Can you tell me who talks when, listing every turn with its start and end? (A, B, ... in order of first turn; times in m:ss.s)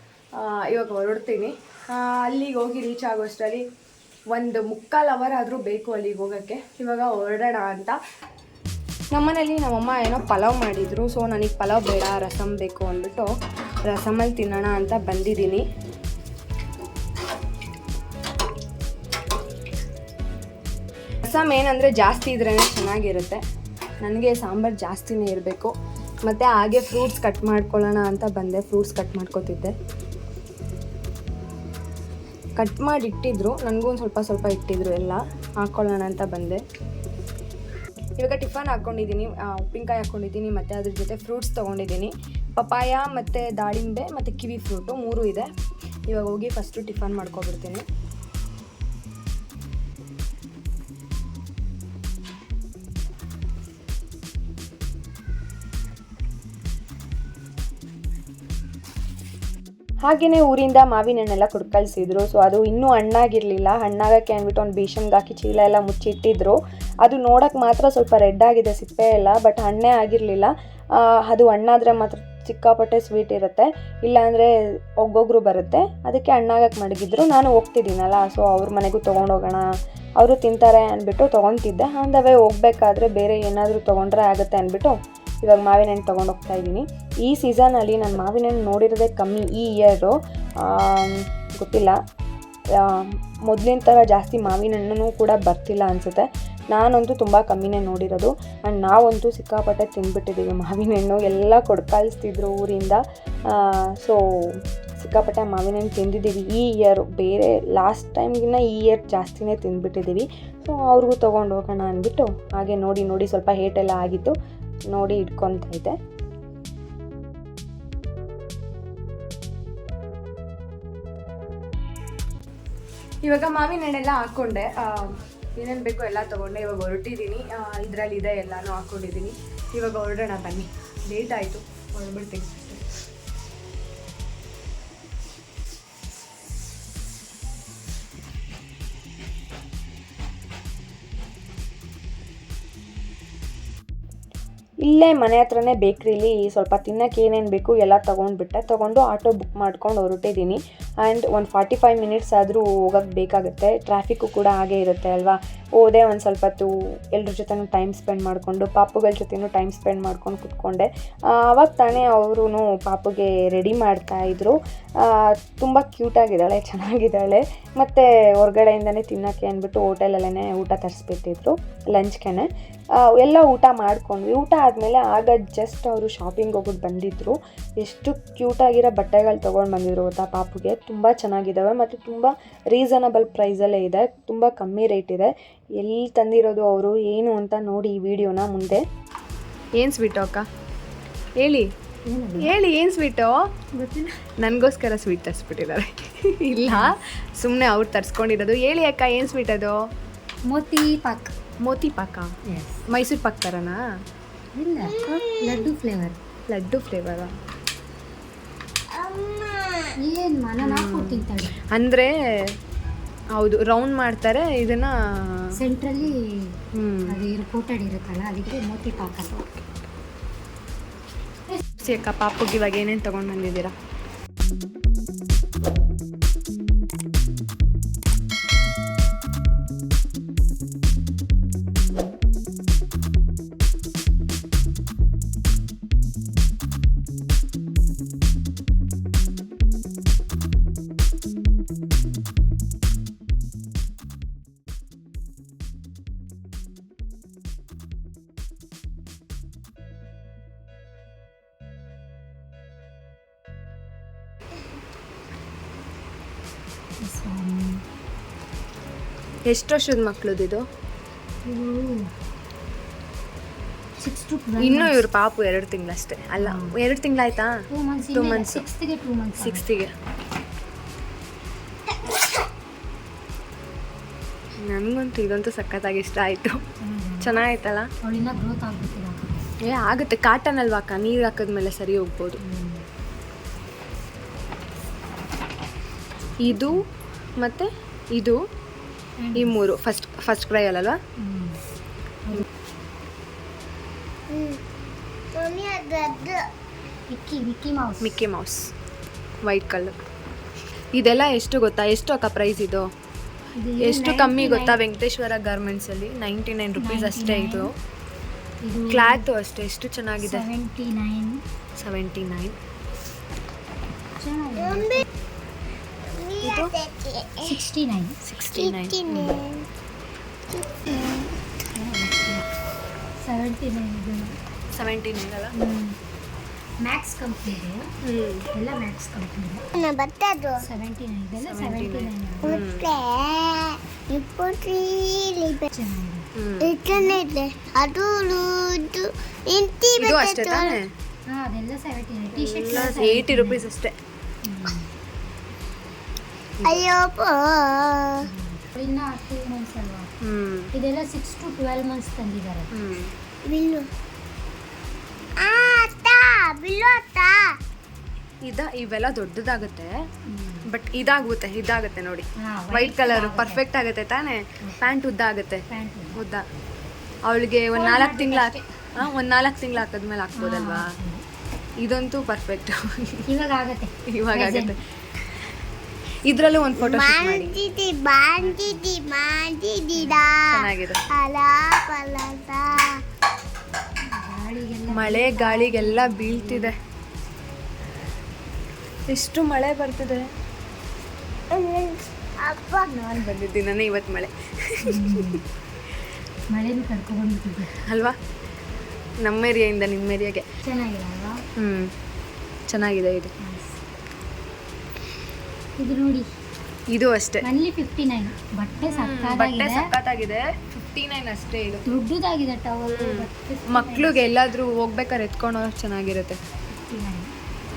0:00.4-0:03.6 A
0:04.3-0:08.0 A
0:09.1-0:13.3 A
0:13.8-0:15.6 A
0:21.2-0:23.4 A
0:24.0-0:25.7 A
0:26.2-0:29.7 A
0:32.6-0:36.6 A
0:38.2-0:45.5 A
0:46.1-0:47.8 A
1:00.0-1:10.5 A
1:11.3-1:14.5 A
1:15.0-1:19.6 A
1:20.2-1:32.0 A
1:32.8-1:54.3 A
1:54.9-1:55.9 A
2:03.2-2:12.8 A
2:24.8-2:52.5 A
2:53.0-3:08.8 A
3:09.8-3:10.4 A
3:11.4-3:11.7 A
3:12.1-3:12.5 B
3:12.4-3:13.4 A
3:13.8-3:14.1 B
3:14.4-3:19.8 A
3:16.6-3:17.0 B
3:20.5-3:21.3 B
3:21.6-3:22.3 A
3:22.5-3:22.8 B
3:22.9-3:23.8 A
3:24.5-3:26.2 B
3:24.8-3:25.6 C
3:26.5-3:27.3 A
3:28.9-3:29.9 C
3:30.0-3:31.6 B
3:30.6-3:32.1 A
3:33.4-3:35.4 A
3:35.6-3:36.1 B
3:36.7-3:37.2 A
3:37.1-3:39.3 B
3:39.2-3:39.6 A
3:41.8-3:43.7 A
4:17.0-4:17.8 B
4:19.5-4:20.6 A
4:21.4-4:22.1 B
4:24.0-4:25.0 B
4:24.6-4:27.5 A
4:26.4-4:26.7 B
4:27.7-4:29.6 B
4:28.1-4:28.6 A
4:29.4-4:29.9 A
4:34.7-4:36.6 A
4:36.8-4:37.4 B
4:37.2-4:37.9 A
4:38.0-4:39.3 B
4:39.6-4:42.4 A
4:42.4-4:42.8 B
4:46.4-4:46.8 A
4:47.4-4:48.4 A
4:49.2-4:49.6 B
4:49.3-4:51.0 A
4:51.2-4:51.6 B
4:54.3-4:54.6 C
4:55.3-4:56.5 C
4:57.1-4:58.2 B
4:58.0-4:58.7 A
4:59.4-4:59.9 A
5:00.9-5:02.8 A
5:03.6-5:04.8 B
5:03.8-5:07.7 A
5:06.8-5:07.7 B
5:08.6-5:09.2 B
5:08.9-5:10.5 A
5:10.2-5:11.4 B
5:11.8-5:12.5 A
5:14.2-5:15.0 B
5:14.6-5:15.0 C
5:16.1-5:17.6 C
5:16.4-5:16.7 A
5:17.4-5:18.2 B
5:18.2-5:19.4 A
5:18.5-5:19.6 C
5:20.5-5:21.4 C
5:21.7-5:22.4 B
5:23.2-5:24.4 B
5:24.7-5:25.5 A
5:25.6-5:26.0 B
5:26.8-5:27.9 B
5:28.0-5:28.4 A
5:28.5-5:29.6 B
5:29.8-5:30.6 C
5:30.6-5:32.6 B
5:31.4-5:32.8 A
5:32.4-5:35.7 C
5:35.7-5:36.3 B
5:36.4-5:36.7 A
5:36.6-5:40.8 C
5:36.9-5:37.2 B
5:40.0-5:40.9 A
5:41.3-5:43.6 B
5:42.3-5:43.9 A
5:44.4-5:44.9 B
5:46.6-5:46.8 A
5:46.6-5:48.2 C
5:48.2-5:50.1 B
5:50.2-5:50.7 A
5:50.7-5:52.7 B
5:52.7-5:53.1 A
5:53.4-5:53.9 C
5:55.4-5:57.6 C
5:58.4-5:59.9 A
6:00.3-6:00.6 B
6:00.7-6:05.6 A
6:02.4-6:03.6 B
6:05.7-6:06.2 B
6:06.1-6:06.4 A
6:07.3-6:10.9 A
6:07.7-6:09.1 B
6:10.3-6:11.2 B
6:11.8-6:13.2 A
6:13.3-6:14.7 B
6:14.1-6:14.8 A
6:16.2-6:17.6 A
6:16.8-6:23.0 C
6:18.4-6:18.8 B
6:20.5-6:21.0 A
6:24.1-6:26.7 B
6:24.9-6:26.8 A
6:29.1-6:30.2 A
6:31.5-6:32.9 C
6:32.8-6:35.4 A
6:34.9-6:35.4 B
6:36.5-6:37.7 B
6:37.8-6:38.2 A
6:39.2-6:40.4 A
6:40.6-6:41.4 B
6:41.6-6:41.9 A
6:42.7-6:43.3 A
6:43.4-6:43.8 B
6:45.8-6:46.2 B
6:46.9-6:47.4 A
6:47.4-6:49.9 B
6:48.9-6:51.8 A
6:51.8-6:54.2 B
6:52.9-6:56.4 A
6:56.7-6:57.3 B